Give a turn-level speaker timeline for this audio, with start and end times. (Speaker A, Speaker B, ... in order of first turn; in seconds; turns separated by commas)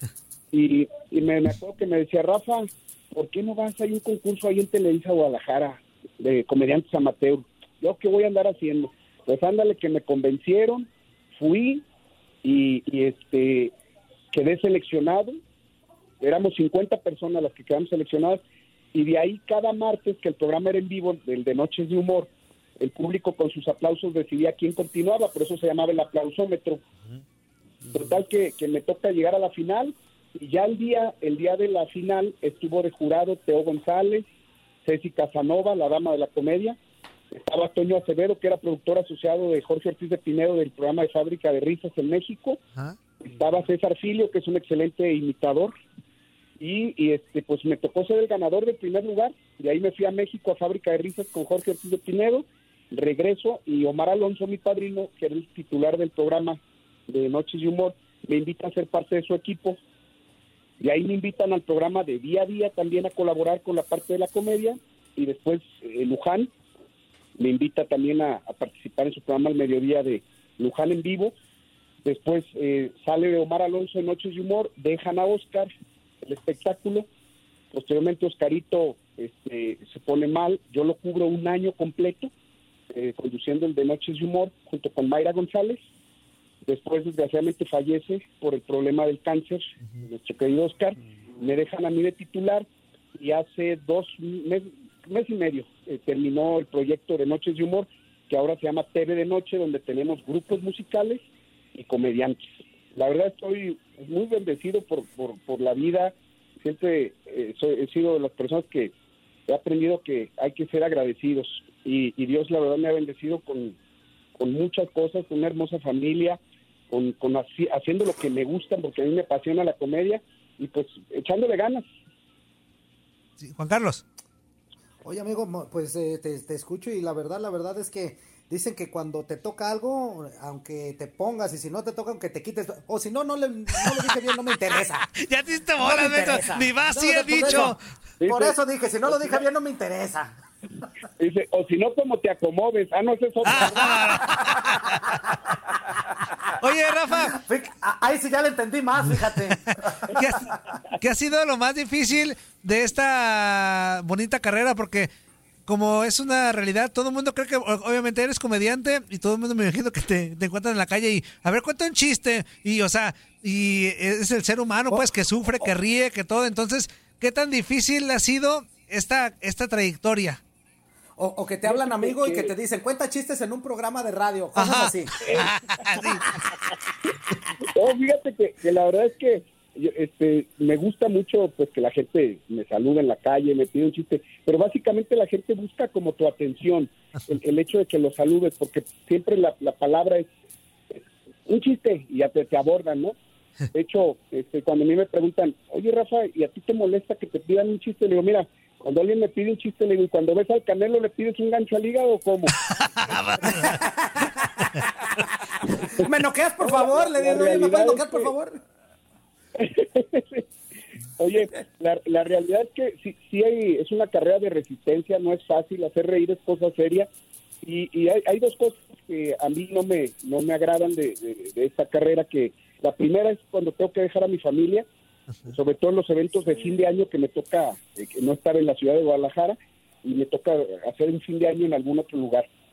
Speaker A: 0.5-11.8, Speaker A: 12.4-13.7, Speaker A: 14.3-15.4, Speaker A: 16.2-18.4, Speaker A: 18.9-26.8, Speaker A: 27.9-34.3, Speaker A: 34.9-36.8, Speaker A: 37.3-42.6, Speaker A: 43.2-45.7, Speaker A: 46.6-59.8, Speaker A: 60.8-66.5, Speaker A: 67.4-71.3, Speaker A: 72.0-75.7, Speaker A: 76.2-77.1, Speaker A: 77.7-82.3, Speaker A: 82.9-85.8, Speaker A: 86.7-108.9, Speaker A: 109.5-113.8, Speaker A: 114.4-116.4, Speaker A: 116.9-121.8, Speaker B: 123.4-124.0, Speaker C: 125.0-135.1, Speaker B: 135.2-137.8, Speaker C: 135.8-140.3, Speaker A: 137.4-137.7, Speaker A: 138.2-139.4, Speaker A: 141.2-144.5, Speaker B: 143.5-145.1, Speaker B: 146.6-147.4, Speaker C: 147.3-149.6, Speaker B: 149.7-155.1, Speaker B: 155.7-170.4, Speaker C: 171.2-175.2, Speaker A: 171.7-172.5, Speaker B: 174.6-176.3, Speaker A: 175.2-175.6, Speaker A: 177.6-190.3, Speaker A: 190.9-193.2, Speaker A: 193.7-202.5, Speaker B: 202.7-203.8, Speaker C: 203.6-204.3, Speaker C: 205.9-208.6, Speaker A: 206.6-208.3, Speaker A: 209.6-210.5, Speaker A: 211.2-217.1, Speaker A: 217.6-224.9, Speaker A: 225.5-232.5